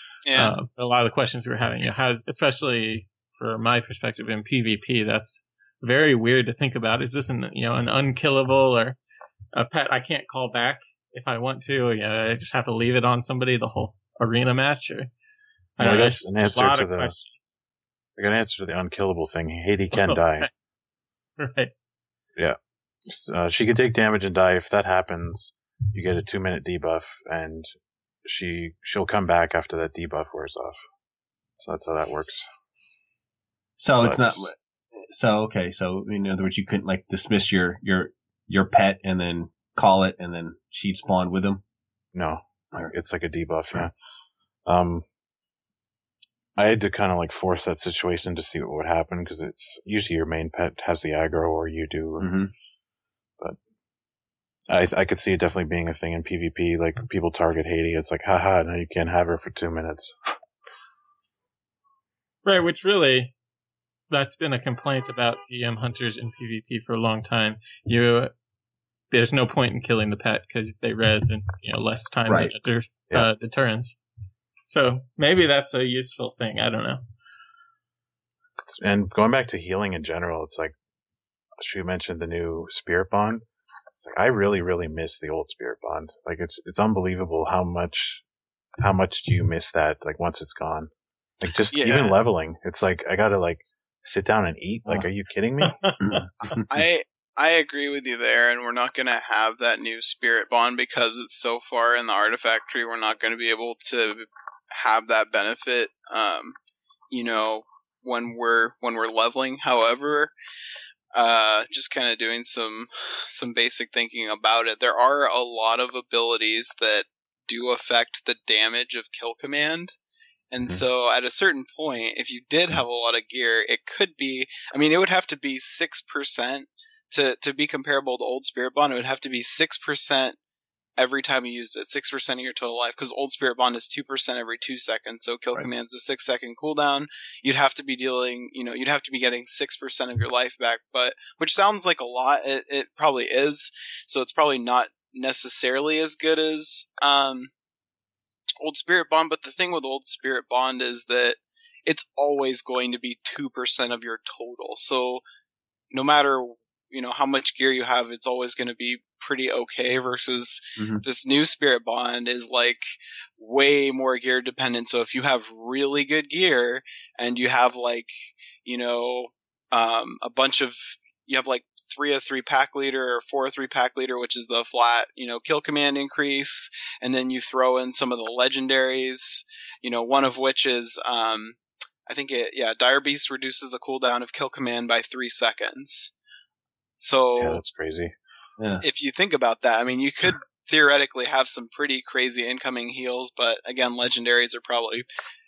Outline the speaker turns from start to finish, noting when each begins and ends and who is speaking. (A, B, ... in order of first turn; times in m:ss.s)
0:00.2-0:00.5 A
0:00.3-0:09.0 B
0:09.5-0:15.1 B
0:15.8-0:17.5 B
0:15.8-0:17.2 C
0:18.2-0:20.5 C
0:19.9-0:20.5 B
0:21.4-0:21.7 B
0:22.4-0:27.7 C
0:28.2-0:30.8 C
0:31.6-0:32.5 C
0:33.8-0:41.6 D
0:34.0-0:34.4 C
0:42.1-0:43.9 C
0:44.6-0:45.0 C
0:46.6-0:52.3 C
0:52.2-0:52.5 D
0:54.7-1:00.3 C
1:02.4-1:03.3 B
1:04.1-1:08.3 B
1:09.1-1:14.0 B
1:12.3-1:12.5 D
1:14.7-1:17.0 B
1:18.7-1:20.7 C
1:21.6-1:23.4 C
1:24.0-1:28.2 C
1:28.8-1:30.9 C
1:31.4-1:35.8 C
1:31.7-1:32.2 A
1:35.6-1:36.0 B
1:36.0-1:36.6 D
1:36.7-1:46.5 A
1:47.1-1:50.3 A
1:51.1-1:59.9 A
2:00.5-2:10.4 A
2:11.0-2:27.5 A
2:28.6-2:35.2 A
2:35.9-3:06.1 A
2:40.8-2:41.0 D
3:07.0-3:07.6 A
3:07.4-3:08.1 C
3:08.6-3:08.8 D
3:08.8-3:15.1 A